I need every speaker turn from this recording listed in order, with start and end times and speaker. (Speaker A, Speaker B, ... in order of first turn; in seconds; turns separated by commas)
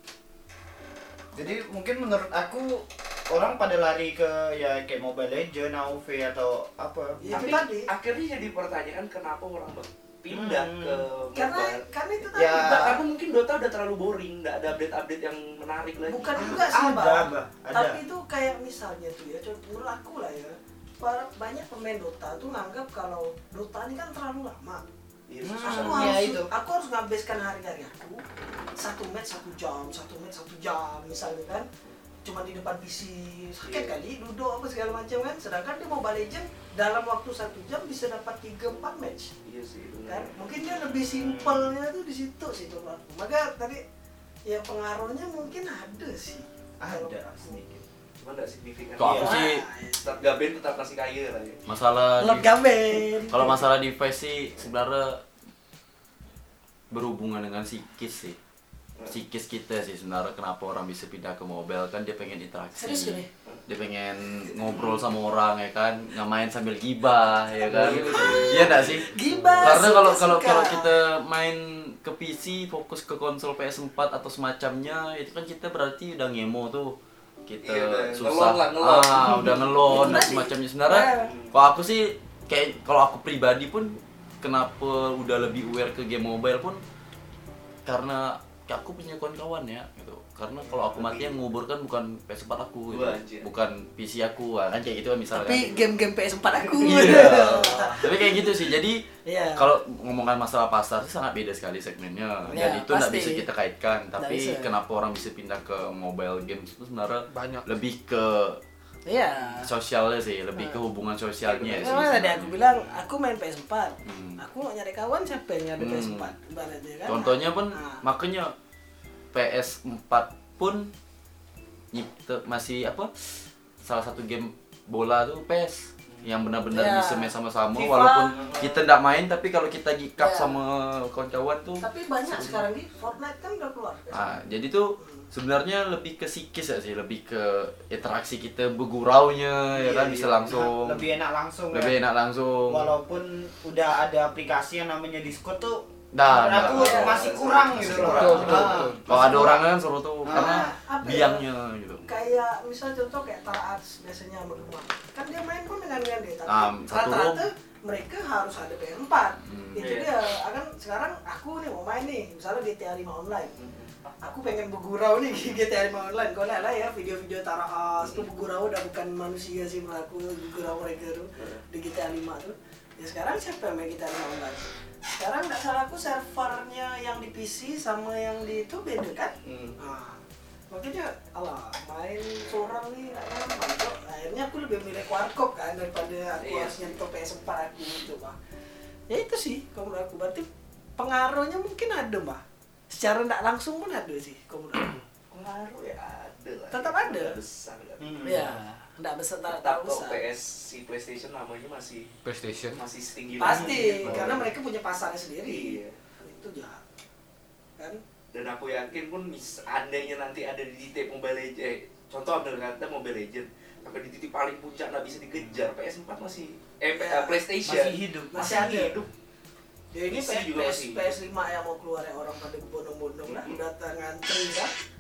Speaker A: 1.4-7.6, Speaker B: 7.2-7.9, Speaker C: 7.2-11.8, Speaker A: 10.3-11.1, Speaker B: 11.3-13.0, Speaker A: 12.3-13.0, Speaker C: 12.5-16.8, Speaker B: 16.1-24.8, Speaker A: 16.4-18.0, Speaker C: 25.3-26.2, Speaker A: 25.4-26.5, Speaker B: 25.6-28.2, Speaker B: 28.8-31.7, Speaker B: 32.2-39.3, Speaker C: 33.6-33.9, Speaker C: 39.5-40.4, Speaker B: 40.1-43.8, Speaker A: 41.0-41.7, Speaker B: 44.5-47.6, Speaker A: 46.8-47.9, Speaker C: 48.2-51.6, Speaker D: 49.0-49.6, Speaker A: 49.0-49.4, Speaker B: 49.2-50.2, Speaker D: 51.7-52.6, Speaker B: 52.2-53.7, Speaker D: 53.2-55.2, Speaker D: 56.9-58.4, Speaker D: 59.1-86.8, Speaker B: 62.8-63.3, Speaker C: 64.7-65.0, Speaker E: 67.7-68.8, Speaker C: 67.7-69.0, Speaker B: 69.1-71.0, Speaker C: 77.6-80.3, Speaker B: 79.3-81.3, Speaker C: 81.2-81.6, Speaker D: 87.8-95.9, Speaker C: 90.6-91.4, Speaker C: 92.9-93.5, Speaker B: 95.3-98.5, Speaker D: 96.8-99.0, Speaker C: 96.8-97.1, Speaker B: 99.2-99.7, Speaker D: 99.6-108.6, Speaker B: 102.5-103.5, Speaker B: 104.2-104.8, Speaker E: 107.3-107.7, Speaker B: 109.0-109.7, Speaker D: 109.3-112.9, Speaker B: 110.5-110.8, Speaker C: 111.4-112.3, Speaker B: 111.7-118.0, Speaker D: 114.0-114.4, Speaker D: 115.8-116.3, Speaker D: 117.1-118.5, Speaker D: 119.3-120.9, Speaker D: 121.9-132.6, Speaker B: 126.7-128.6, Speaker C: 128.3-128.9, Speaker B: 130.2-130.6, Speaker B: 131.8-134.2, Speaker D: 134.1-141.1, Speaker B: 135.0-135.3, Speaker A: 139.8-142.0, Speaker D: 141.7-142.9, Speaker A: 142.7-149.7, Speaker D: 146.1-152.1, Speaker C: 146.6-148.6, Speaker B: 146.7-147.2, Speaker E: 148.0-149.2, Speaker A: 150.2-150.7, Speaker B: 150.3-151.5, Speaker B: 152.1-163.5, Speaker D: 156.5-157.5, Speaker D: 159.4-160.0, Speaker C: 159.8-160.1, Speaker C: 163.6-163.9, Speaker B: 164.2-188.4, Speaker C: 171.4-171.6, Speaker C: 179.4-179.8, Speaker C: 186.4-187.0, Speaker B: 189.1-195.0, Speaker C: 195.3-198.5, Speaker B: 196.7-197.4, Speaker A: 198.0-198.5, Speaker B: 198.2-200.2, Speaker C: 199.5-202.1, Speaker E: 202.2-202.8, Speaker C: 202.8-204.5, Speaker B: 203.4-206.8, Speaker A: 203.5-204.4, Speaker C: 205.5-206.0, Speaker C: 208.3-219.1, Speaker B: 216.9-217.4, Speaker A: 217.7-218.6, Speaker B: 218.3-219.0, Speaker B: 219.9-224.7, Speaker C: 220.1-221.1, Speaker C: 223.3-223.6